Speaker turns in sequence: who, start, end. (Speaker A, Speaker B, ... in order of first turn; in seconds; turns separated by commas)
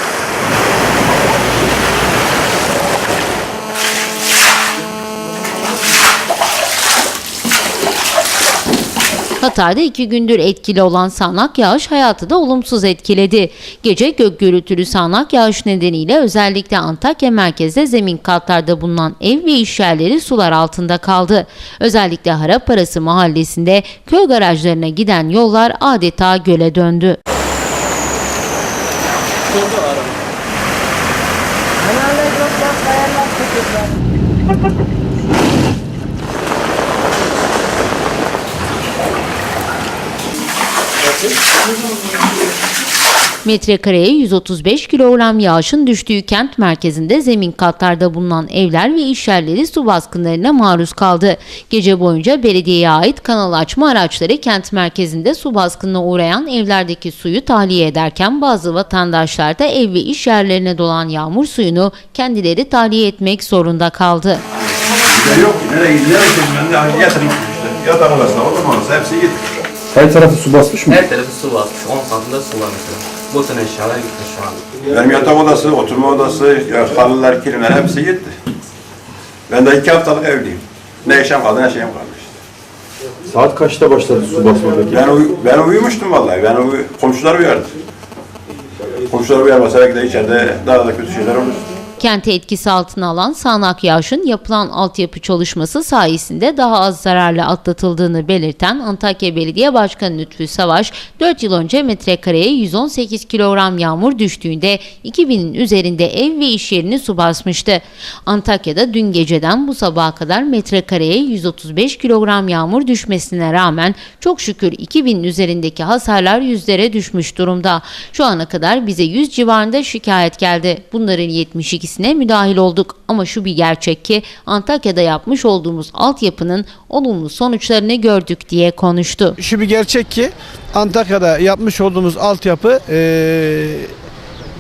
Speaker A: 9.4-27.2, Speaker A: 43.5-64.4, Speaker B: 64.8-69.5, Speaker C: 69.9-71.0, Speaker D: 70.9-74.7, Speaker B: 74.8-78.4, Speaker B: 79.5-82.4, Speaker C: 83.3-85.1, Speaker B: 84.9-87.8, Speaker B: 89.0-91.7, Speaker A: 92.0-129.4, Speaker E: 129.4-133.9